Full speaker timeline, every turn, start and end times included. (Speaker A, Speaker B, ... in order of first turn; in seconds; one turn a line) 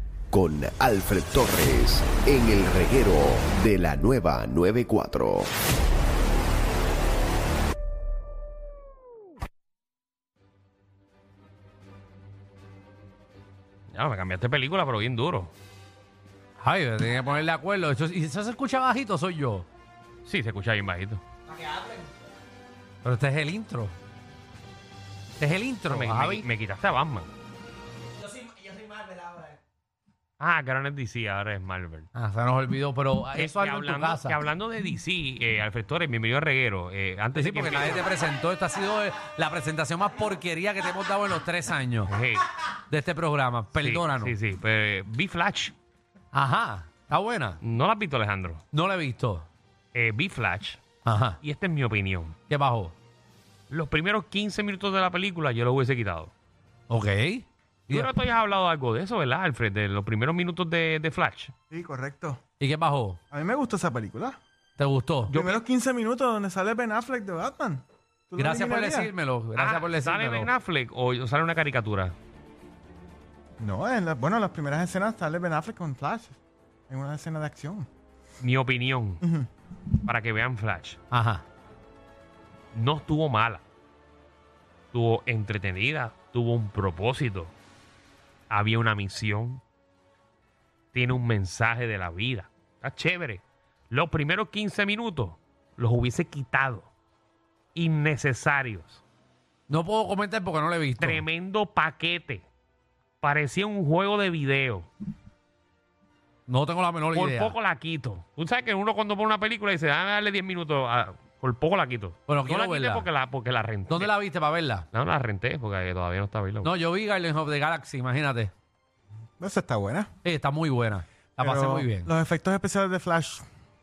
Speaker A: 0.3-5.5
Speaker B: 13.9-15.5
Speaker C: 16.6-19.7
Speaker B: 20.3-21.2
Speaker C: 23.0-23.9
Speaker C: 25.4-26.5
Speaker B: 25.9-27.3
Speaker B: 30.4-32.1
Speaker C: 32.1-34.4
Speaker B: 33.3-38.1
Speaker C: 37.3-42.1
Speaker B: 42.1-42.5
Speaker C: 42.9-44.4
Speaker B: 43.8-45.7
Speaker C: 46.3-47.6
Speaker B: 47.6-48.6
Speaker C: 48.7-49.5
Speaker B: 49.9-50.8
Speaker C: 51.0-51.4
Speaker B: 51.4-52.4
Speaker C: 52.5-52.9
Speaker B: 53.7-56.3
Speaker C: 56.9-58.1
Speaker B: 57.9-61.5
Speaker D: 61.7-62.4
Speaker C: 62.6-63.2
Speaker D: 63.3-64.4
Speaker C: 64.8-65.3
Speaker B: 65.3-65.6
Speaker D: 65.3-69.1
Speaker C: 68.4-70.5
Speaker B: 69.6-72.1
Speaker D: 73.6-76.4
Speaker D: 76.9-77.9
Speaker B: 78.4-79.2
Speaker D: 79.2-79.5
Speaker B: 80.0-81.0
Speaker C: 81.1-81.4
Speaker B: 82.7-83.6
Speaker B: 84.9-87.5
Speaker B: 88.5-89.6
Speaker B: 90.9-96.9
Speaker B: 97.8-99.0
Speaker C: 99.7-101.2
Speaker B: 101.0-102.5
Speaker B: 103.2-104.9
Speaker C: 106.5-107.6
Speaker B: 107.1-114.1
Speaker C: 112.3-113.1
Speaker C: 113.9-114.9
Speaker B: 114.9-116.7
Speaker C: 116.6-118.5
Speaker D: 119.4-120.1
Speaker C: 120.2-122.1
Speaker D: 121.4-123.5